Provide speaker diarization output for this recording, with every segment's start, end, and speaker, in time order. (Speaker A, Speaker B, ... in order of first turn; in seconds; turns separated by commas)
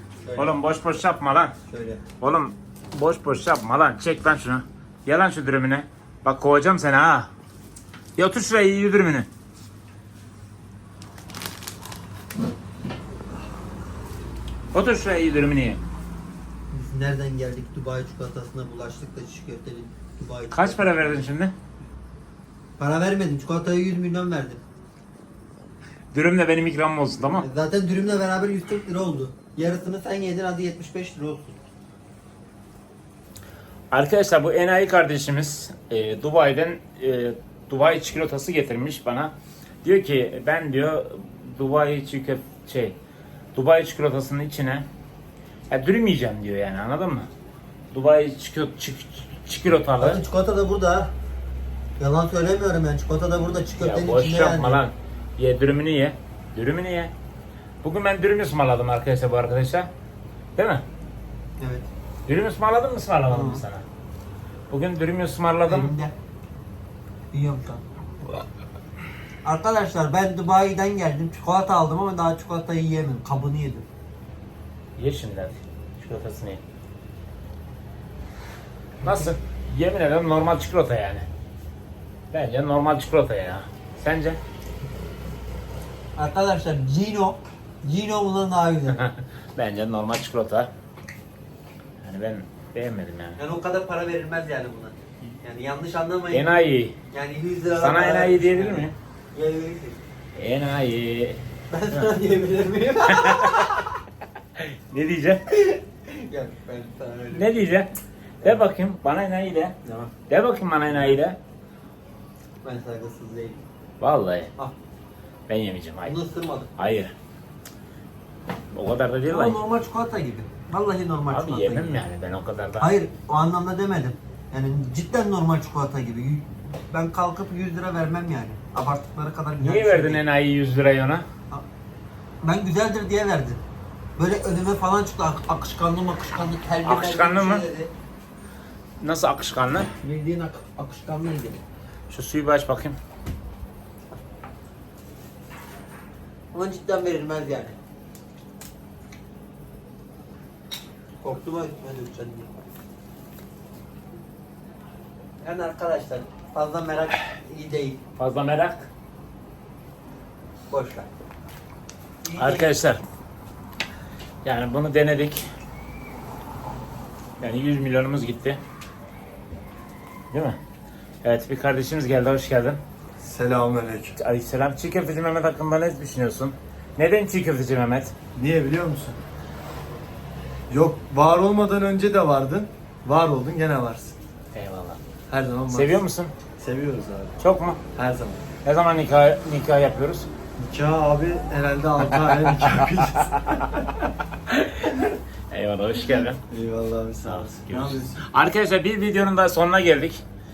Speaker A: 0.2-0.6, Speaker B: 0.3-1.5, Speaker A: 1.7-2.0, Speaker B: 2.2-7.3, Speaker B: 8.2-9.3, Speaker B: 14.7-15.8, Speaker A: 16.7-21.2, Speaker B: 20.5-21.5, Speaker A: 22.8-24.6, Speaker B: 26.1-27.4, Speaker A: 27.4-31.6, Speaker B: 33.9-43.0, Speaker B: 43.5-44.9, Speaker B: 45.7-47.3, Speaker B: 47.9-50.2, Speaker A: 50.0-51.1, Speaker A: 52.0-54.8, Speaker B: 53.8-57.1, Speaker B: 57.8-59.9, Speaker B: 60.6-60.8, Speaker A: 61.6-61.9, Speaker B: 62.3-63.8, Speaker A: 63.3-63.6, Speaker B: 64.7-65.9, Speaker A: 65.6-66.1, Speaker A: 67.3-67.8, Speaker A: 69.4-73.8, Speaker B: 75.0-76.6, Speaker B: 79.0-81.2, Speaker B: 82.3-84.4, Speaker A: 86.2-89.0, Speaker B: 88.9-90.7, Speaker B: 92.0-93.4, Speaker A: 93.3-96.5, Speaker B: 96.3-97.0, Speaker A: 97.1-100.0, Speaker B: 97.7-99.0, Speaker B: 100.3-101.4, Speaker A: 101.7-103.9, Speaker B: 103.1-103.8, Speaker B: 104.5-105.5, Speaker A: 105.5-107.5, Speaker B: 107.3-109.8, Speaker A: 109.8-110.1, Speaker B: 110.3-111.4, Speaker A: 110.9-111.2, Speaker A: 112.6-113.6, Speaker B: 114.0-114.5, Speaker B: 115.5-116.1, Speaker A: 116.0-116.7, Speaker B: 116.8-117.1, Speaker B: 118.7-119.6, Speaker A: 119.3-122.0, Speaker B: 121.3-122.9, Speaker A: 122.8-130.2, Speaker B: 129.6-131.2, Speaker A: 132.4-133.6, Speaker A: 134.2-137.9, Speaker B: 136.8-137.6, Speaker B: 139.0-139.9, Speaker A: 140.0-141.6, Speaker B: 142.1-143.0, Speaker A: 146.5-147.8, Speaker A: 151.2-152.5, Speaker A: 155.4-158.0, Speaker B: 158.2-158.9, Speaker A: 160.7-161.1, Speaker A: 162.2-162.8, Speaker B: 162.4-163.0, Speaker B: 164.4-165.5, Speaker B: 167.4-168.6, Speaker B: 170.3-170.6, Speaker B: 171.2-172.8, Speaker C: 173.2-174.2, Speaker B: 174.2-178.1, Speaker C: 178.3-179.2, Speaker C: 180.7-184.2, Speaker B: 184.5-185.0, Speaker C: 185.3-186.0, Speaker B: 185.7-186.3, Speaker C: 186.6-187.4, Speaker B: 187.4-187.8, Speaker C: 187.9-188.4, Speaker B: 188.6-190.3, Speaker C: 190.6-194.0, Speaker B: 192.1-193.1, Speaker B: 194.5-196.4, Speaker C: 196.4-198.2, Speaker B: 197.2-200.2